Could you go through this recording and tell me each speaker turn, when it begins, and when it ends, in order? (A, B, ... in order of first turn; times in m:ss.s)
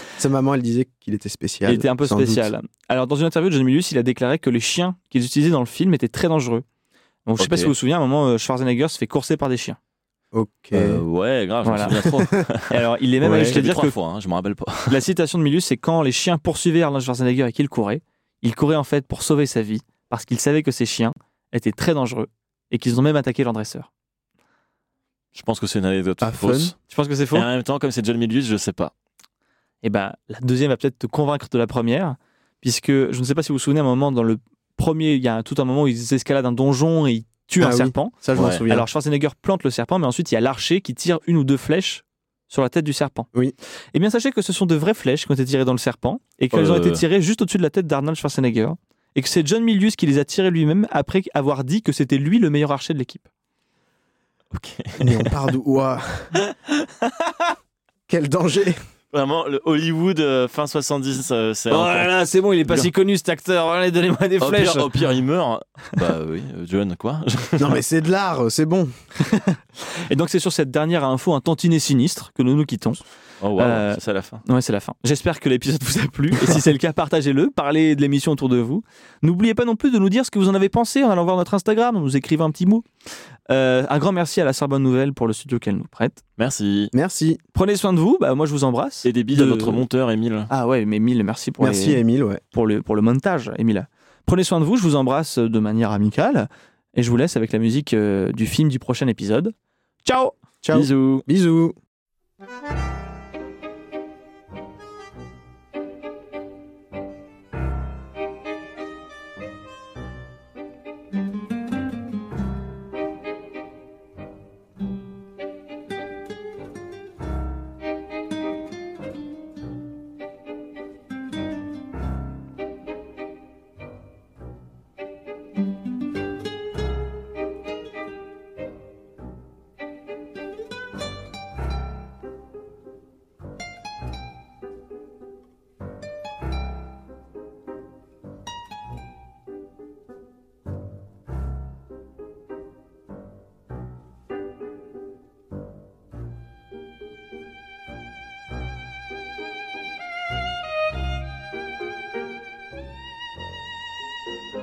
0:00.2-0:02.4 A
0:01.7-0:06.6 B
0:07.3-0:09.8 B
0:07.4-0:07.7 C
0:10.3-0:11.0 A
0:10.7-0:15.0 C
0:11.6-0:12.0 B
0:12.7-0:13.9 B
0:13.2-0:13.6 A
0:14.9-0:23.9 B
0:25.4-0:26.8 C
0:26.2-0:26.7 A
0:26.9-0:27.5 B
0:27.3-0:28.9 C
0:29.8-0:43.3 B
0:37.6-0:38.9 A
0:38.4-0:38.6 C
0:43.9-0:53.2 B
0:46.5-0:47.0 C
0:54.5-0:55.3 C
0:55.0-0:56.3 A
0:58.1-0:58.8 A
0:59.1-1:02.1 C
1:01.7-1:04.9 B
1:04.4-1:07.8 C
1:07.6-1:08.9 A
1:09.2-1:13.0 B
1:13.4-1:14.4 C
1:13.6-1:22.9 B
1:23.5-1:26.2 B
1:26.4-1:26.9 C
1:26.9-1:27.4 A
1:27.6-1:29.8 B
1:29.0-1:30.5 C
1:30.5-1:39.5 B
1:31.6-1:32.4 A
1:40.0-1:40.3 B
1:40.6-1:41.8 A
1:40.7-1:41.2 C